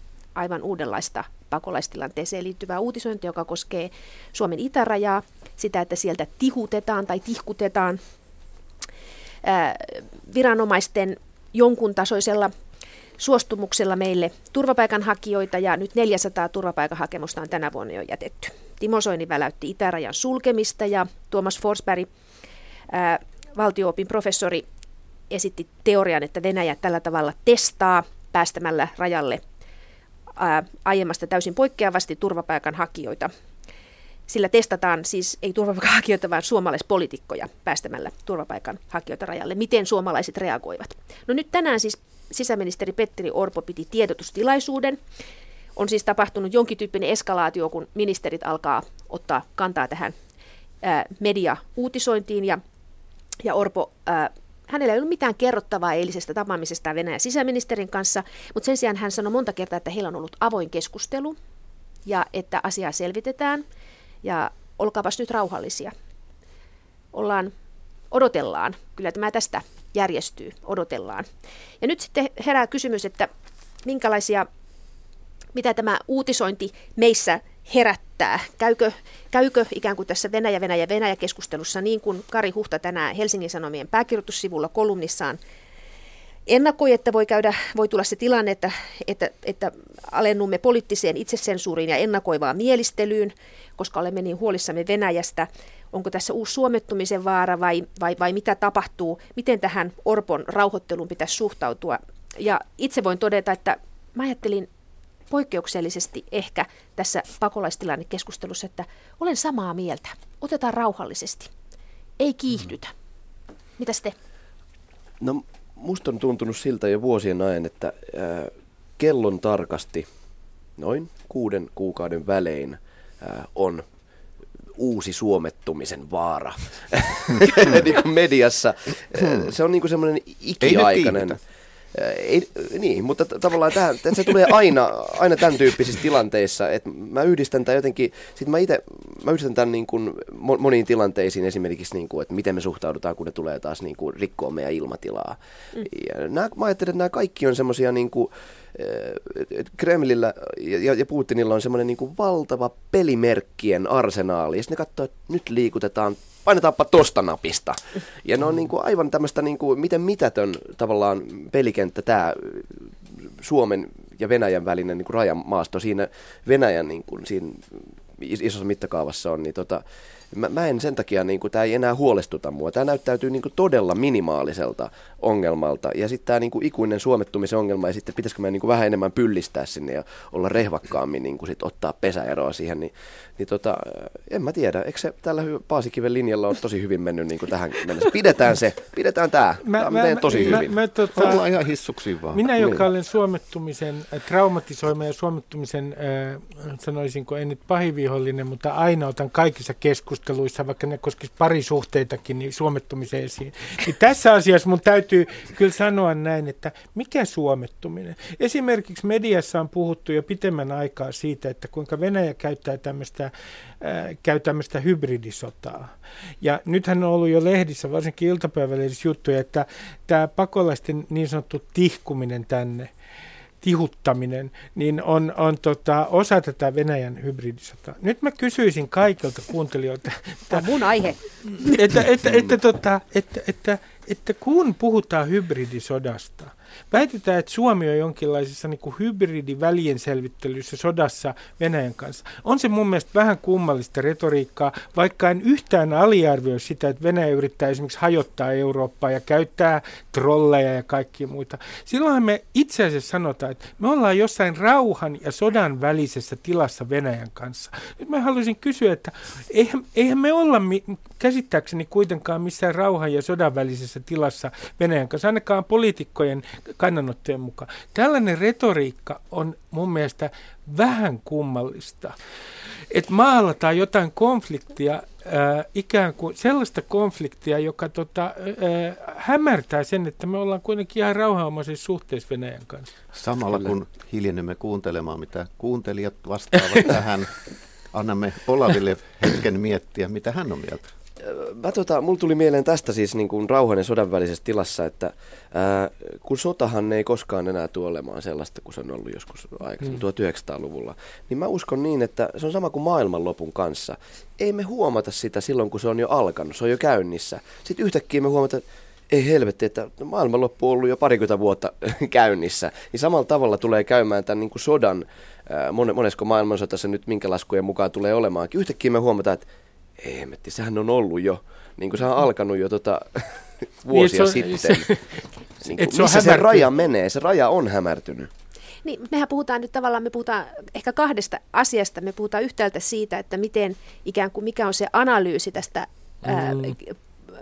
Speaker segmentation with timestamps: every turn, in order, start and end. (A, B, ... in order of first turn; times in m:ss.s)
0:00.4-0:08.0 A
0:09.4-0:12.5 A
0:13.2-0:22.1 A
0:22.9-0:24.6 A
0:25.3-0:29.4 A
0:30.4-0:33.3 A
0:34.3-0:45.0 A
0:45.8-0:50.2 A
0:50.8-0:52.6 A
0:53.4-1:01.4 A
1:02.1-1:03.6 A
1:04.2-1:05.9 A
1:07.1-1:07.5 A
1:08.1-1:11.3 A
1:11.8-1:13.3 A
1:13.8-1:14.5 A
1:15.5-1:25.4 A
1:26.5-1:44.7 A
1:45.3-1:51.5 A
1:52.2-1:52.9 A
1:53.8-1:54.2 A
1:55.2-2:00.1 B
2:00.8-2:03.8 B
2:04.8-2:11.4 B
2:09.2-2:09.5 C
2:10.6-2:11.4 C
2:11.9-3:10.8 B
3:09.6-3:11.4 D
3:10.3-3:12.6 C
3:12.3-3:42.9 D
3:43.6-3:50.6 D
3:50.5-3:51.7 A
3:51.6-4:32.2 D
4:32.9-4:42.9 D
4:43.1-4:47.3 C
4:47.9-4:50.9 C
4:51.2-5:19.5 B
5:20.0-5:24.9 B
5:23.9-5:25.2 D
5:25.6-5:28.3 B
5:25.8-5:26.7 D
5:28.8-5:37.0 A
5:36.3-5:36.7 D